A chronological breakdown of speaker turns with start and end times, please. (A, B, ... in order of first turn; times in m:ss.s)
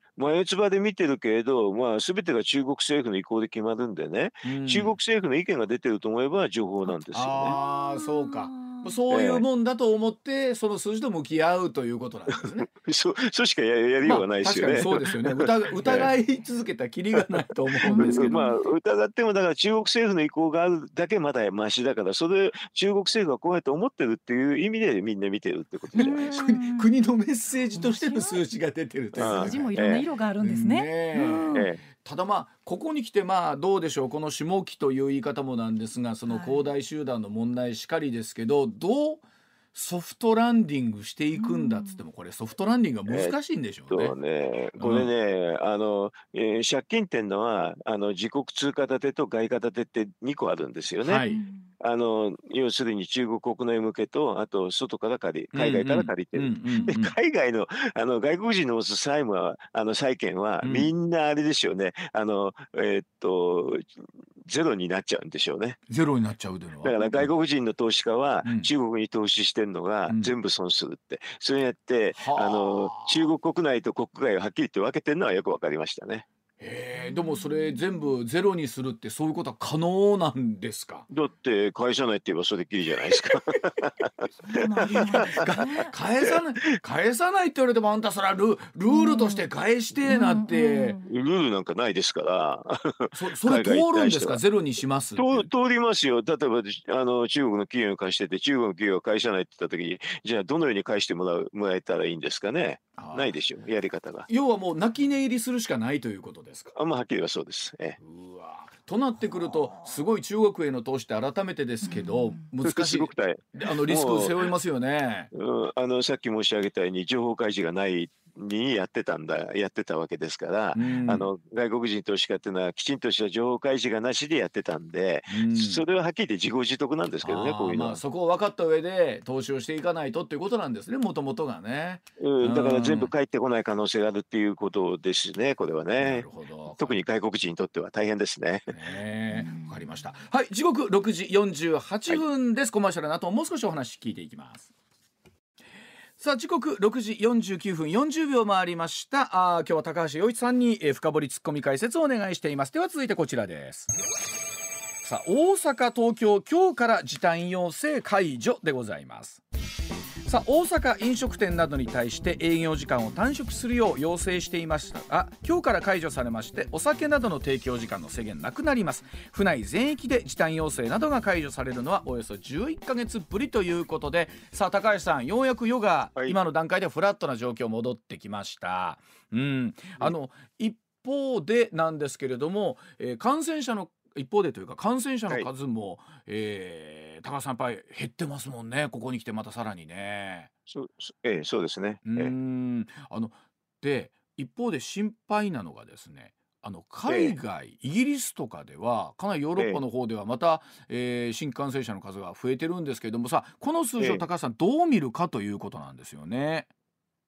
0:00.2-0:07.6 A
0:04.4-0:05.0 B
0:06.8-0:09.0 C
0:07.1-0:12.7 B
0:09.1-0:09.4 A
0:12.3-0:16.1 A
0:14.0-0:18.4 B
0:17.8-0:26.2 A
0:17.8-0:18.6 C
0:25.9-0:29.8 B
0:26.0-0:26.9 C
0:27.7-0:28.4 C
0:29.2-0:30.0 A
0:29.2-0:31.7 C
0:30.4-0:39.2 B
0:31.5-0:31.8 A
0:36.3-0:36.6 C
0:39.7-0:44.2 B
0:41.4-0:42.0 C
0:43.1-0:43.4 A
0:43.9-0:51.2 A
0:44.8-0:45.1 B
0:51.0-0:51.4 B
0:51.3-0:51.7 C
0:51.8-1:05.8 A
0:55.5-0:57.2 B
0:56.7-0:57.0 C
1:00.6-1:00.9 B
1:05.9-1:07.3 B
1:06.8-1:16.2 A
1:08.4-1:08.7 B
1:10.1-1:10.3 B
1:12.2-1:13.3 B
1:16.6-1:21.1 B
1:17.0-1:18.1 C
1:21.1-1:26.4 A
1:24.5-1:25.9 C
1:25.0-1:31.0 B
1:28.9-1:29.5 C
1:30.1-1:31.1 C
1:31.1-1:34.4 A
1:33.1-1:35.5 B
1:35.2-1:44.3 A
1:43.0-1:43.3 B
1:44.3-1:46.7 B
1:46.8-1:48.0 A
1:48.0-1:55.3 B
1:51.8-1:52.4 C
1:52.6-1:54.4 A
1:55.3-2:08.0 A
2:00.7-2:01.3 B
2:05.3-2:05.8 B
2:07.2-2:13.1 B
2:12.2-2:18.8 A
2:16.0-2:17.0 B
2:18.7-2:24.7 B
2:19.3-2:19.8 C
2:26.2-2:33.9 B
2:35.0-2:39.4 B
2:40.2-3:10.5 B
3:10.7-3:12.3 A
3:12.0-3:26.7 B
3:17.1-3:17.4 A
3:19.6-3:19.8 A
3:24.0-3:24.2 A